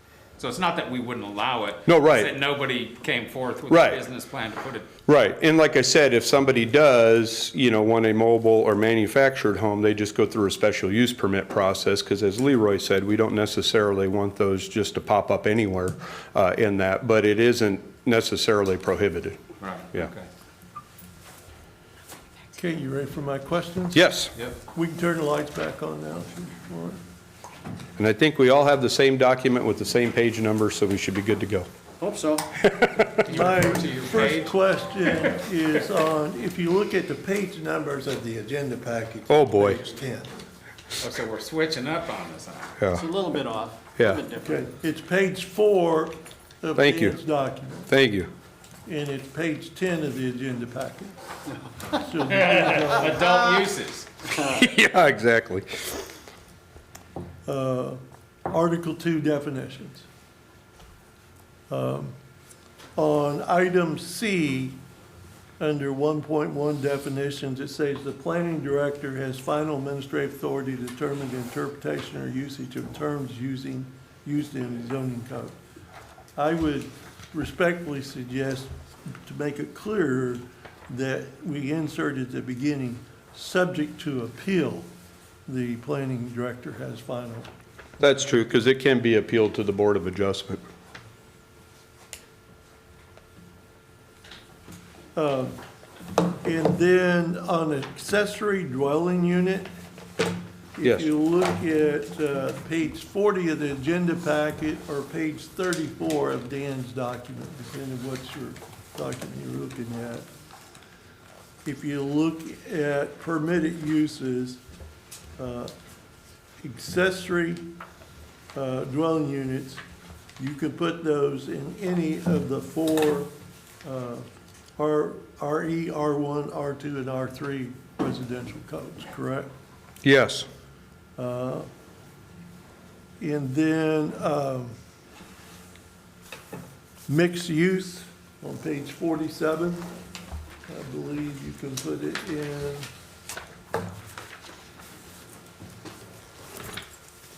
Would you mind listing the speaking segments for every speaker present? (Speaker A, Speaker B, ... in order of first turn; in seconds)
Speaker A: 0.4-4.9, 19.6-20.3, 33.2-34.5, 41.0-42.8, 52.3-54.3
Speaker B: 1.9-2.3, 3.7-4.0, 5.1-19.4, 23.9-24.3, 28.0-31.7, 32.6-33.2, 39.3-39.8, 42.8-43.1, 44.0-44.2, 46.8-47.2, 47.9-48.3, 54.3-56.0, 88.0-90.6, 100.8-101.1, 130.0-130.4
Speaker C: 22.6-24.1, 24.7-27.0, 33.2-40.3, 44.4-47.9, 48.9-51.2, 51.9-53.4, 57.5-60.1, 61.7-62.1, 63.0-64.8, 65.6-75.5, 76.4-84.9, 85.5-87.5, 95.1-95.6, 96.4-99.7, 100.8-110.3, 111.6-114.6, 115.4-115.7, 116.6-117.6, 118.5-119.8, 120.4-123.3, 123.8-124.2, 124.8-129.5, 131.2-131.7, 133.2-134.7, 137.1-139.8, 140.7-142.9
Speaker D: 32.0-32.5, 42.9-44.6